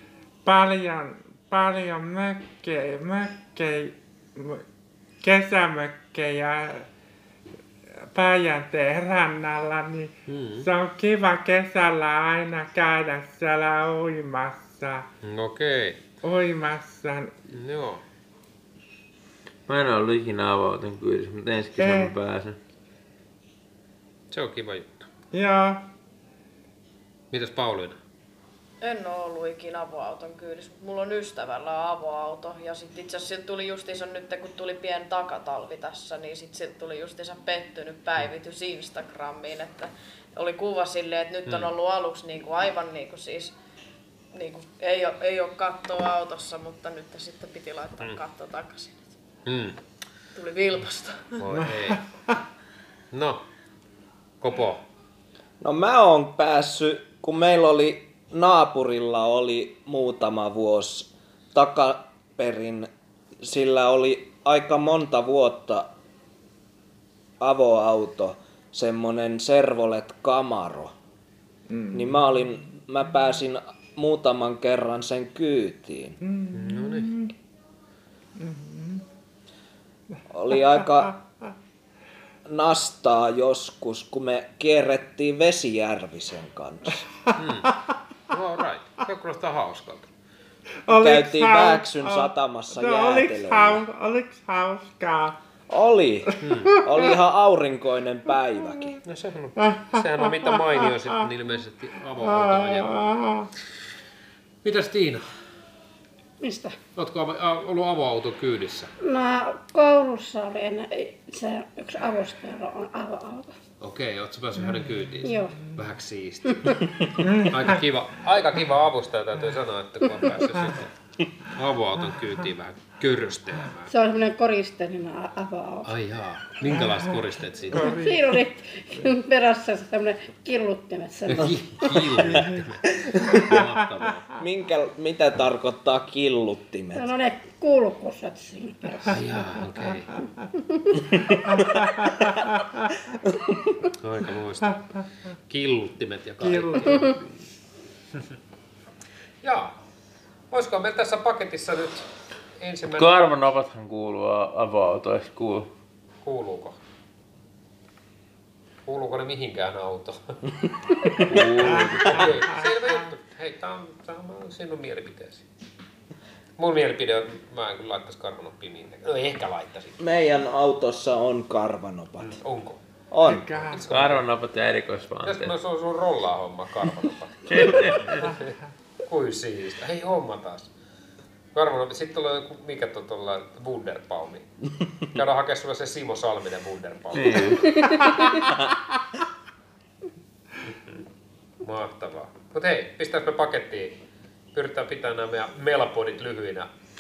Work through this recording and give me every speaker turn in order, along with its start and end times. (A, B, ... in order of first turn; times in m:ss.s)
0:00.4-0:04.6 A
0:05.2-0:06.9 A
0:08.0-0:15.1 A
0:10.3-0:10.7 B
0:15.2-0:16.0 B
0:16.2-0:17.3 A
0:17.5-0:18.0 B
0:19.7-0:22.6 C
0:21.8-0:22.2 A
0:24.3-0:25.1 B
0:25.3-0:25.8 A
0:27.3-0:28.0 B
0:28.8-0:43.6 D
0:44.3-0:49.0 D
0:49.5-0:49.8 B
0:50.3-0:51.5 D
0:51.4-0:52.0 B
0:51.6-0:52.4 A
0:53.1-0:53.4 B
0:54.4-0:54.8 B
0:55.6-1:02.9 E
1:03.4-1:05.9 E
1:07.4-1:10.9 E
1:11.7-1:12.2 A
1:11.9-1:16.2 E
1:16.2-1:17.3 A
1:16.5-1:17.1 B
1:18.4-1:19.0 A
1:20.3-1:21.2 E
1:22.5-1:27.0 E
1:27.3-1:27.7 A
1:27.4-1:27.7 B
1:28.3-1:30.1 B
1:30.9-1:35.4 A
1:30.9-1:33.8 E
1:35.7-1:39.0 E
1:36.4-1:36.8 B
1:36.4-1:37.0 A
1:39.0-1:43.1 B
1:39.6-1:41.1 A
1:42.2-1:43.5 A
1:44.6-1:45.2 B
1:46.4-1:46.8 F
1:47.0-1:48.9 B
1:49.0-1:53.5 F
1:53.8-2:00.9 B
1:55.2-1:55.6 F
1:57.2-1:57.6 A
2:01.5-2:03.9 B
2:03.9-2:05.9 F
2:05.8-2:08.0 B
2:07.7-2:08.3 A
2:07.8-2:11.6 F
2:11.3-2:14.3 B
2:12.2-2:12.5 A
2:14.4-2:17.1 E
2:16.9-2:19.3 F
2:19.1-2:20.1 B
2:21.5-2:22.5 A
2:23.9-2:24.9 B
2:25.5-2:27.2 B
2:26.4-2:27.2 A
2:29.4-2:29.7 B
2:30.5-2:32.1 B
2:32.6-2:33.1 B
2:32.9-2:35.7 C
2:36.2-2:36.8 B
2:38.9-2:40.2 B
2:41.0-2:45.4 B
2:41.3-2:42.4 C
2:46.6-2:50.0 B
2:50.0-2:52.4 E
2:52.2-2:54.3 B
2:53.1-2:53.4 E
2:53.3-2:53.8 A
2:53.9-2:55.6 C
2:55.2-2:58.5 B
2:57.5-2:58.3 C
2:59.1-3:00.7 B
3:01.6-3:04.5 B
3:05.1-3:07.8 B
3:07.1-3:08.0 C
3:10.7-3:11.0 B
3:11.6-3:14.0 B
3:14.5-3:16.7 B